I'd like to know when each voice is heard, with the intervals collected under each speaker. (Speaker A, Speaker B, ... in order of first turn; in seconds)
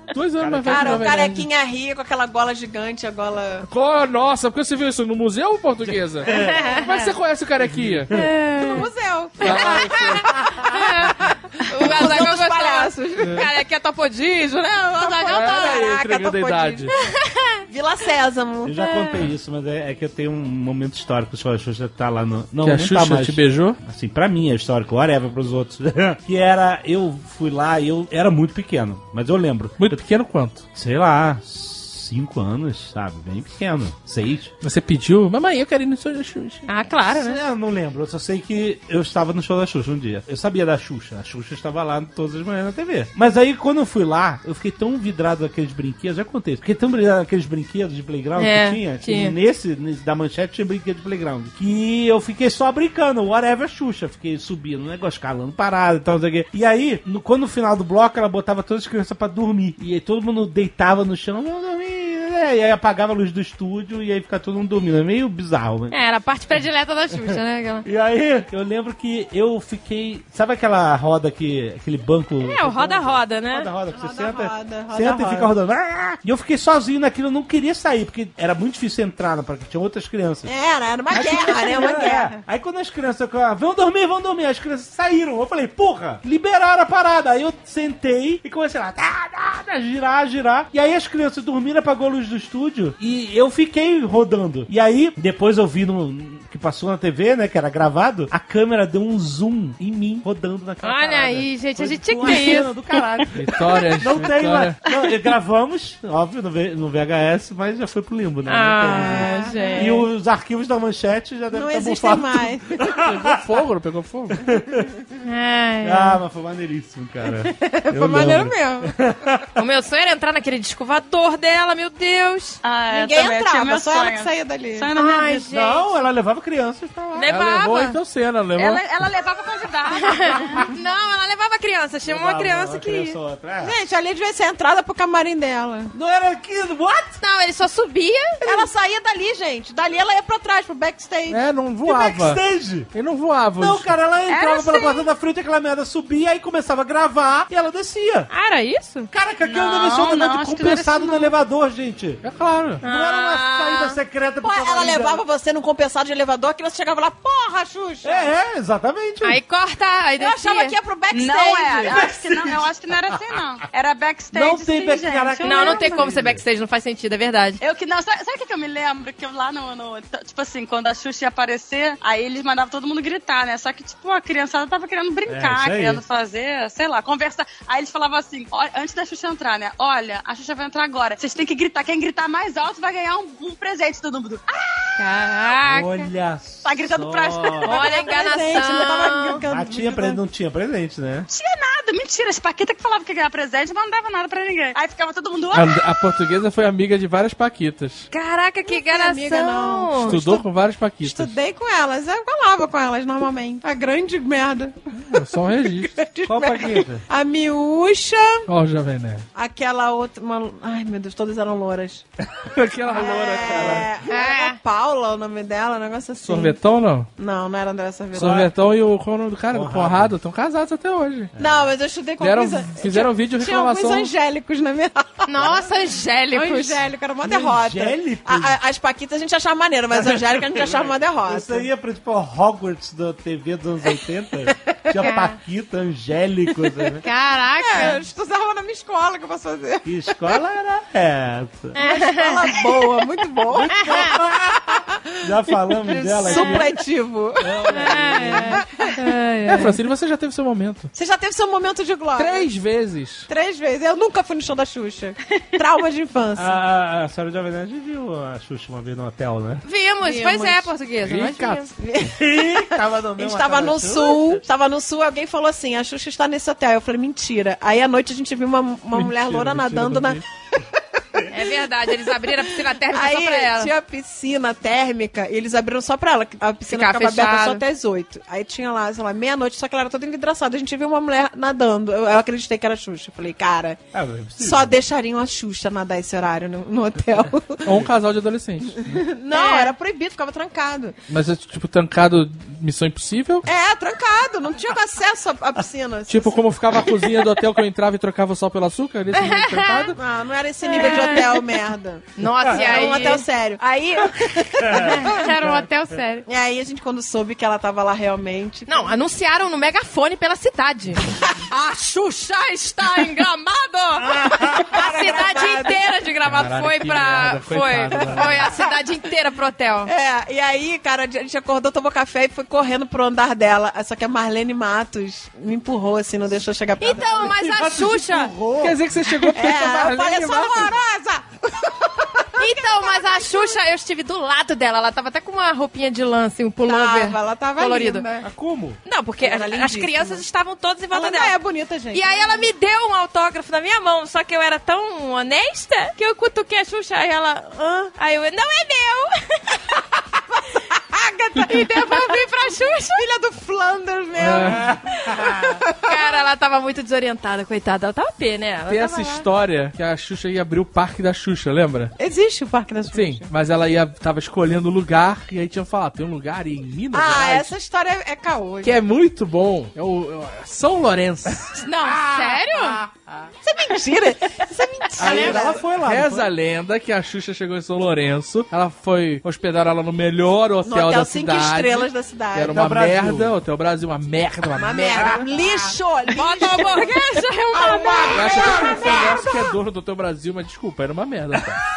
Speaker A: 0.1-1.5, 3.7-8.1, 9.4-10.2, 13.2-13.5, 15.2-17.0, 22.6-23.8, 29.8-30.7, 34.6-36.7, 103.3-104.8, 112.9-114.4, 127.3-128.8, 141.3-144.0, 152.2-152.8, 195.5-198.1, 200.0-201.3, 204.9-205.9, 208.5-209.2, 212.5-213.9, 216.2-217.1, 218.1-221.3, 222.2-224.1, 249.5-250.9, 252.2-253.3, 261.0-261.7, 268.9-270.2, 287.6-289.0, 291.1-293.5, 296.1-300.0, 316.2-318.4, 328.6-330.8, 351.3-351.6, 354.2-354.7, 358.7-361.9, 362.9-367.5, 368.6-371.5, 375.0-385.3, 388.1-391.6
Speaker B: 0.4-1.2, 5.8-6.7, 7.6-8.4, 18.6-30.0, 30.7-34.5, 37.1-66.0, 67.8-80.5, 81.1-113.4, 114.4-114.9, 115.8-119.5, 125.5-127.3, 132.1-133.7, 135.9-137.2, 141.8-142.9, 143.6-148.3, 149.1-152.2, 152.8-155.2, 158.0-159.4, 161.9-162.7, 164.3-166.4, 175.3-176.0, 185.7-187.8, 189.5-191.3, 206.2-207.0, 219.5-220.1, 221.4-221.7, 227.2-228.6, 229.9-237.0, 239.8-241.8, 243.5-246.7, 247.4-248.6, 256.4-259.6, 262.0-264.4, 283.9-284.8, 304.7-305.6, 314.0-314.9, 327.2-328.8, 338.2-338.8, 354.4-355.5, 371.8-373.3, 375.0-376.3, 382.5-383.4, 384.9-385.8, 387.5-389.3
Speaker C: 0.7-3.7, 8.6-10.4, 11.1-13.4, 14.9-16.9, 17.7-18.7, 73.9-75.5, 80.5-82.4, 109.0-110.0, 111.5-112.8, 117.4-118.9, 122.9-124.9, 133.6-135.9, 138.4-141.4, 154.4-158.3, 160.2-162.1, 187.6-190.2, 198.7-200.5, 201.0-204.8, 205.6-208.4, 209.3-212.0, 212.9-216.6, 217.2-218.5, 221.4-225.6, 226.3-231.7, 234.9-235.2, 237.6-240.0, 241.8-244.0, 245.8-249.2, 250.9-252.5, 253.3-256.6, 260.0-260.7, 261.8-270.2, 271.1-283.8, 284.4-287.9, 288.8-291.0, 293.4-296.4, 299.9-305.3, 306.3-308.9, 314.6-315.9, 319.9-327.3, 329.3-333.6, 336.6-338.3, 339.2-340.2, 340.9-342.5, 350.7-355.5, 358.9-359.2, 362.0-363.3, 366.9-368.8, 373.4-375.6, 380.6-382.6, 384.5-387.2, 388.4-389.0
Speaker D: 6.3-7.1, 8.1-8.9, 9.5-11.2, 11.7-15.9, 16.9-17.6, 18.8-19.1, 36.7-37.4, 48.4-49.3, 65.9-67.9, 72.4-73.7, 100.8-103.0, 108.5-110.0, 115.2-116.2, 119.6-122.6, 125.0-125.9, 127.1-128.0, 129.9-133.2, 137.2-138.7, 148.3-149.1, 152.8-154.0, 159.2-160.8, 165.4-167.6, 185.0-186.1, 187.6-189.5, 198.1-200.2, 214.1-214.6, 225.3-226.8, 235.0-235.4, 237.0-238.0, 241.7-242.5, 243.8-244.2, 246.3-246.6, 247.7-249.8, 259.6-261.7, 271.3-273.7, 276.7-277.6, 289.3-289.7, 299.1-299.9, 300.6-301.5, 302.2-303.3, 304.8-306.3, 308.7-319.9, 326.8-328.3, 332.4-338.0, 338.9-341.4, 341.9-349.6, 351.4-353.1, 355.8-359.0, 371.6-372.8, 386.1-388.9
Speaker E: 122.6-125.5, 128.6-130.7, 144.3-145.1, 149.4-151.3, 161.1-166.1, 167.6-185.1, 186.6-188.1, 191.3-195.9